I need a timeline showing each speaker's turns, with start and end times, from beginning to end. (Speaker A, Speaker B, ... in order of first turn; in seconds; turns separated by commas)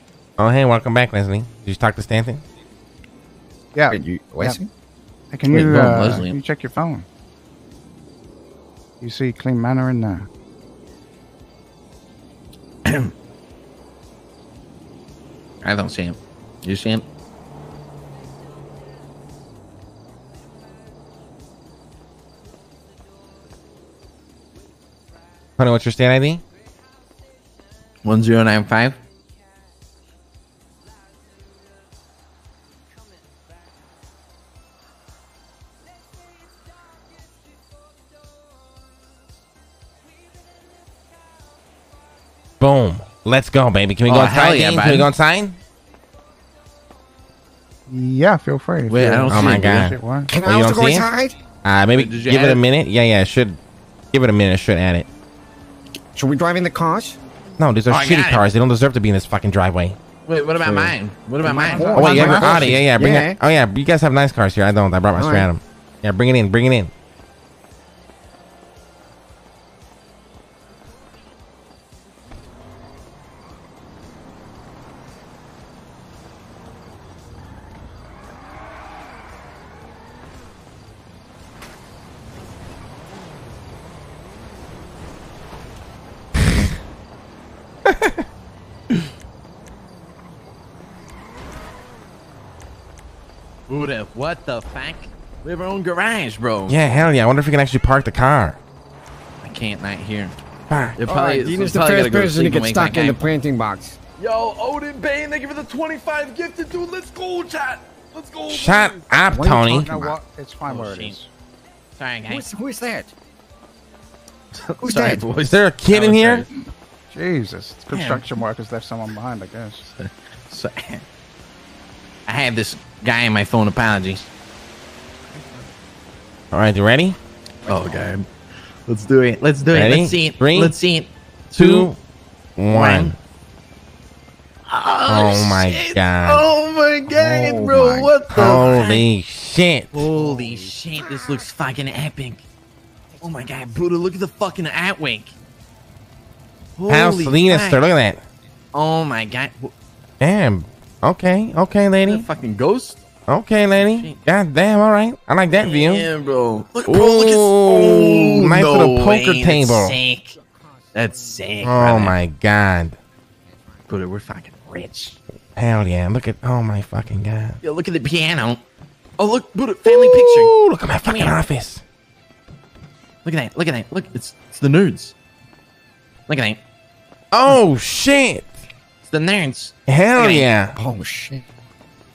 Speaker A: 0.4-2.4, Speaker B: 3.7-4.6, Speaker C: 3.9-4.7, Speaker B: 5.3-7.1, Speaker D: 5.5-6.4, Speaker B: 9.0-10.3, Speaker D: 12.8-13.1, Speaker D: 15.6-17.1, Speaker A: 25.6-26.4, Speaker D: 28.0-29.0, Speaker A: 42.6-45.6, Speaker D: 44.1-45.1, Speaker B: 47.9-50.3, Speaker D: 48.9-49.9, Speaker A: 49.3-51.1, Speaker C: 50.3-51.4, Speaker A: 51.6-53.6, Speaker D: 51.9-52.6, Speaker A: 54.1-55.1, Speaker C: 56.1-57.2, Speaker A: 57.6-60.0, Speaker D: 57.9-58.4, Speaker D: 60.3-62.8, Speaker C: 60.6-63.4, Speaker B: 61.7-62.7, Speaker A: 62.0-66.9, Speaker C: 65.1-65.5, Speaker A: 86.4-86.7, Speaker A: 87.9-88.2, Speaker D: 93.7-96.8, Speaker A: 96.7-98.6, Speaker D: 99.4-100.3, Speaker A: 100.7-101.0, Speaker D: 101.0-103.2, Speaker C: 101.1-104.0, Speaker D: 104.2-109.2, Speaker A: 108.5-109.9, Speaker C: 109.3-110.2, Speaker B: 109.7-111.3, Speaker D: 110.7-111.2, Speaker D: 112.0-112.5, Speaker C: 112.3-113.1, Speaker D: 114.5-116.5, Speaker C: 114.8-115.2, Speaker A: 115.4-116.5, Speaker B: 117.1-119.9, Speaker D: 117.9-118.2, Speaker D: 119.9-121.0, Speaker D: 122.3-124.3, Speaker A: 126.5-127.2, Speaker C: 127.7-128.1, Speaker D: 127.7-128.3, Speaker D: 128.9-131.9, Speaker A: 129.7-130.8, Speaker A: 131.6-132.0, Speaker A: 132.6-133.2, Speaker D: 132.7-133.2, Speaker D: 134.7-139.1, Speaker A: 135.1-136.5, Speaker C: 137.1-138.8, Speaker A: 138.3-140.1, Speaker D: 139.9-142.4, Speaker C: 140.1-141.5, Speaker C: 143.1-143.9, Speaker D: 143.2-145.3, Speaker D: 146.8-147.8, Speaker A: 146.9-148.2, Speaker D: 148.7-149.7, Speaker A: 150.2-152.3, Speaker D: 152.0-153.0, Speaker A: 153.3-156.1, Speaker D: 153.8-154.2, Speaker D: 155.5-160.4, Speaker A: 156.9-160.0, Speaker C: 160.3-161.8, Speaker D: 160.9-162.2, Speaker A: 161.6-163.0, Speaker C: 163.5-163.9, Speaker D: 163.9-165.2, Speaker A: 165.6-167.6, Speaker D: 167.6-168.6, Speaker D: 169.2-171.4, Speaker A: 169.8-171.8, Speaker D: 173.2-175.2, Speaker D: 176.3-176.6, Speaker A: 177.3-178.6, Speaker D: 179.0-180.5, Speaker A: 179.9-180.8, Speaker C: 180.8-181.4